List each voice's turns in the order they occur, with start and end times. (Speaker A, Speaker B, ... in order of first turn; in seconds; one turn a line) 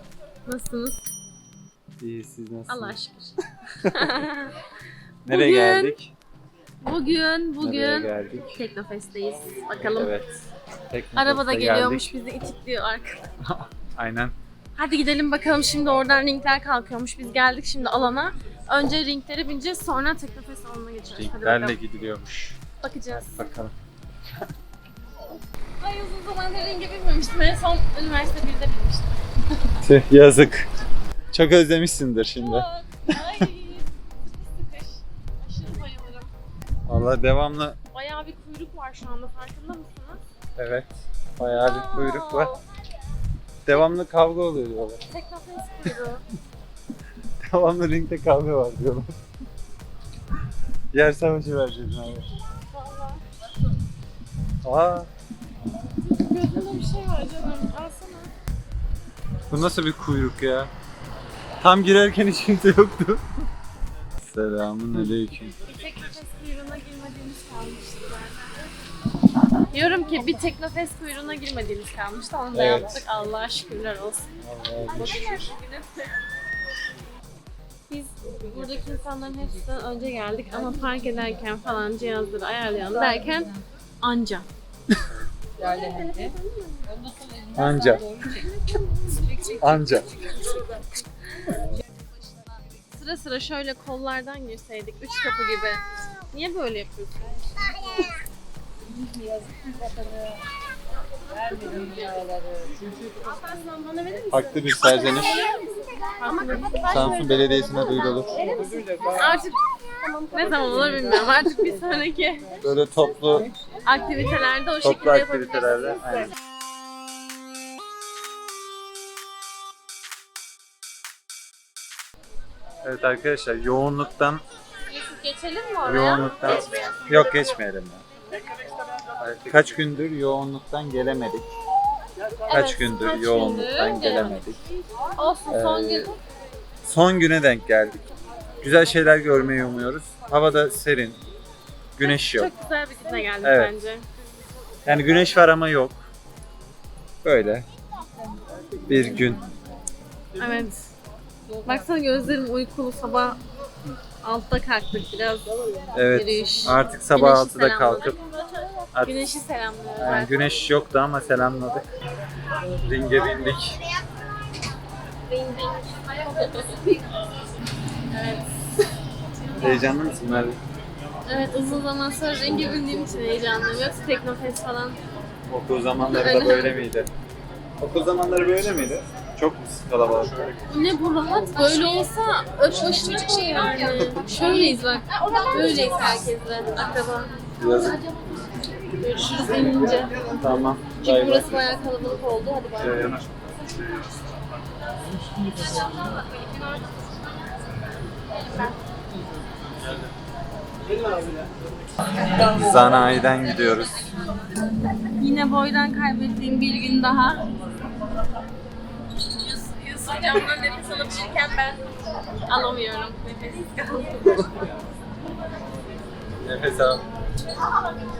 Speaker A: 0.5-1.1
Speaker B: 2.0-3.0
Speaker A: 2.7-4.5
Speaker B: 5.3-6.1
Speaker A: 5.3-6.0
Speaker A: 6.8-10.1
Speaker B: 7.6-8.5
Speaker B: 9.9-10.4
Speaker B: 10.9-12.1
Speaker A: 11.2-13.2
Speaker B: 13.5-14.3
Speaker A: 14.8-21.8
Speaker B: 21.2-22.6
Speaker A: 22.8-23.3
Speaker B: 23.1-23.7
Speaker A: 25.8-29.2
Speaker B: 29.8-30.7
Speaker B: 31.3-33.1
Speaker A: 32.4-36.3
Speaker B: 36.9-37.8
Speaker A: 37.9-40.2
Speaker B: 40.6-42.5
Speaker A: 41.6-42.6
Speaker B: 43.6-45.0
Speaker A: 45.1-46.2
Speaker B: 47.5-49.1
Speaker B: 50.9-52.3
Speaker A: 52.7-53.2
Speaker B: 54.6-55.1
Speaker A: 56.0-58.3
Speaker B: 59.5-60.7
Speaker B: 61.6-63.2
Speaker B: 64.2-65.5
Speaker A: 65.7-68.5
Speaker A: 69.7-74.3
Speaker B: 72.5-73.0
Speaker B: 74.4-75.3
Speaker A: 75.0-76.0
Speaker A: 77.9-84.5
Speaker A: 85.6-86.8
Speaker B: 87.5-88.3
Speaker A: 89.0-90.5
Speaker B: 89.6-90.2
Speaker A: 92.9-97.3
Speaker A: 101.5-102.1
Speaker A: 103.2-104.3
Speaker B: 104.3-105.5
Speaker A: 106.2-107.7
Speaker B: 106.9-108.6
Speaker A: 109.1-109.6
Speaker A: 110.3-112.5
Speaker B: 112.6-113.5
Speaker A: 113.8-116.0
Speaker B: 114.8-116.3
Speaker B: 122.8-124.4
Speaker A: 124.9-127.0
Speaker B: 125.8-128.0
Speaker B: 129.2-131.5
Speaker A: 132.5-134.4
Speaker B: 132.5-134.6
Speaker A: 135.2-136.2
Speaker B: 135.5-136.1
Speaker B: 136.8-138.1
Speaker B: 138.6-141.2
Speaker B: 142.0-142.5
Speaker A: 142.0-144.1
Speaker B: 143.4-143.7
Speaker B: 144.8-146.0
Speaker B: 147.2-147.7
Speaker B: 148.9-149.5
Speaker A: 150.4-150.9
Speaker A: 151.6-153.4
Speaker A: 154.2-160.3
Speaker B: 155.9-158.2
Speaker B: 158.9-159.2
Speaker B: 160.0-161.8
Speaker B: 162.8-163.8
Speaker A: 165.3-167.3
Speaker A: 168.1-168.5
Speaker B: 169.6-170.6
Speaker A: 171.3-175.0
Speaker B: 175.5-177.1
Speaker A: 176.1-176.8
Speaker B: 177.8-180.6
Speaker A: 180.7-187.3
Speaker B: 187.6-188.0
Speaker A: 188.9-190.1
Speaker B: 190.4-191.7
Speaker A: 191.0-193.1
Speaker B: 192.8-193.3
Speaker A: 195.5-197.1
Speaker A: 198.3-198.8
Speaker B: 202.3-204.0
Speaker A: 205.2-207.5
Speaker A: 209.3-211.8
Speaker A: 212.5-214.6
Speaker B: 216.4-217.0